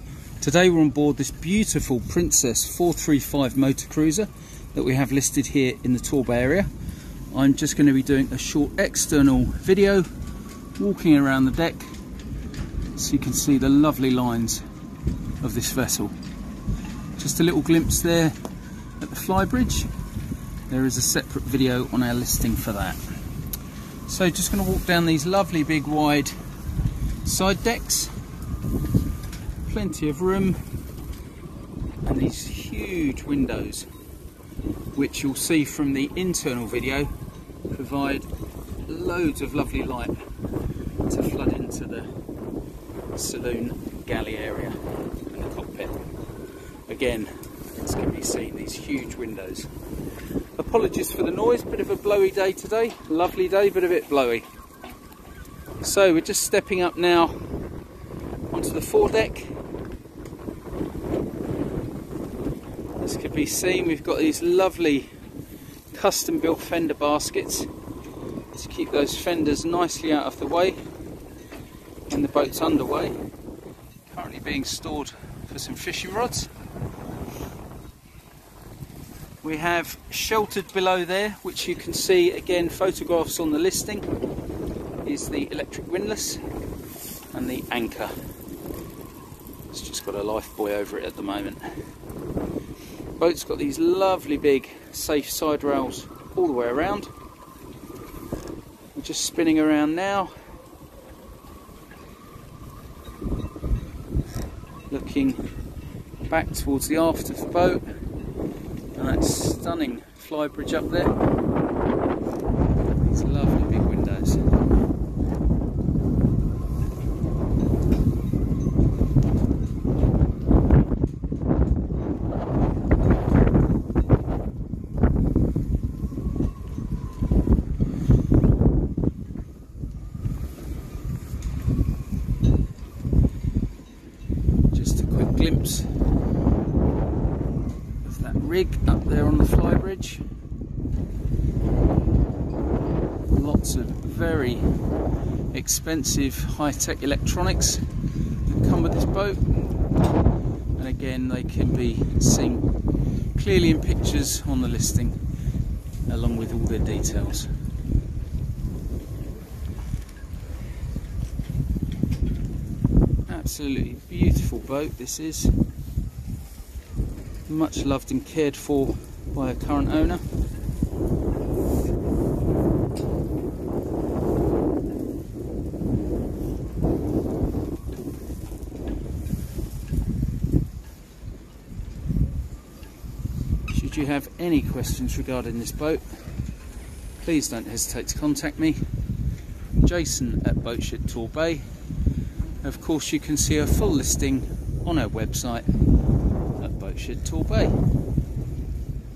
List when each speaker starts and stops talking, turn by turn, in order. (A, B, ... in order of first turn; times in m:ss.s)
0:00.4-0:06.7 A
0:07.3-0:10.1 A
0:10.8-0:11.8 A
0:12.9-0:14.6 A
0:15.4-0:16.1 A
0:17.2-0:18.3 A
0:19.0-0:19.9 A
0:20.7-0:23.0 A
0:24.1-0:26.3 A
0:27.2-0:28.1 A
0:29.6-0:30.6 A
0:32.0-0:33.9 A
0:34.9-0:37.1 A
0:37.7-0:38.3 A
0:38.9-0:40.2 A
0:41.1-0:42.1 A
0:43.1-0:46.0 A
0:46.9-0:49.7 A
0:50.6-0:54.4 A
0:55.8-0:57.4 A
0:58.5-0:59.6 A
1:03.0-1:05.1 A
1:05.9-1:07.7 A
1:08.5-1:10.8 A
1:12.1-1:13.2 A
1:14.1-1:16.5 A
1:19.4-1:24.0 A
1:25.0-1:26.4 A
1:27.3-1:28.1 A
1:29.7-1:31.6 A
1:33.2-1:37.1 A
1:38.9-1:40.3 A
1:44.9-1:45.4 A
1:46.2-1:47.8 A
1:48.9-1:51.1 A
1:53.0-1:54.4 A
2:14.7-2:15.9 A
2:18.0-2:20.2 A
2:23.3-2:24.7 A
2:25.5-2:27.8 A
2:28.5-2:29.6 A
2:30.8-2:32.6 A
2:33.3-2:35.2 A
2:36.1-2:37.5 A
2:43.3-2:45.5 A
2:47.5-2:50.2 A
3:03.7-3:06.0 A
3:07.2-3:08.8 A
3:09.8-3:11.6 A
3:12.6-3:15.7 A
3:16.6-3:17.7 A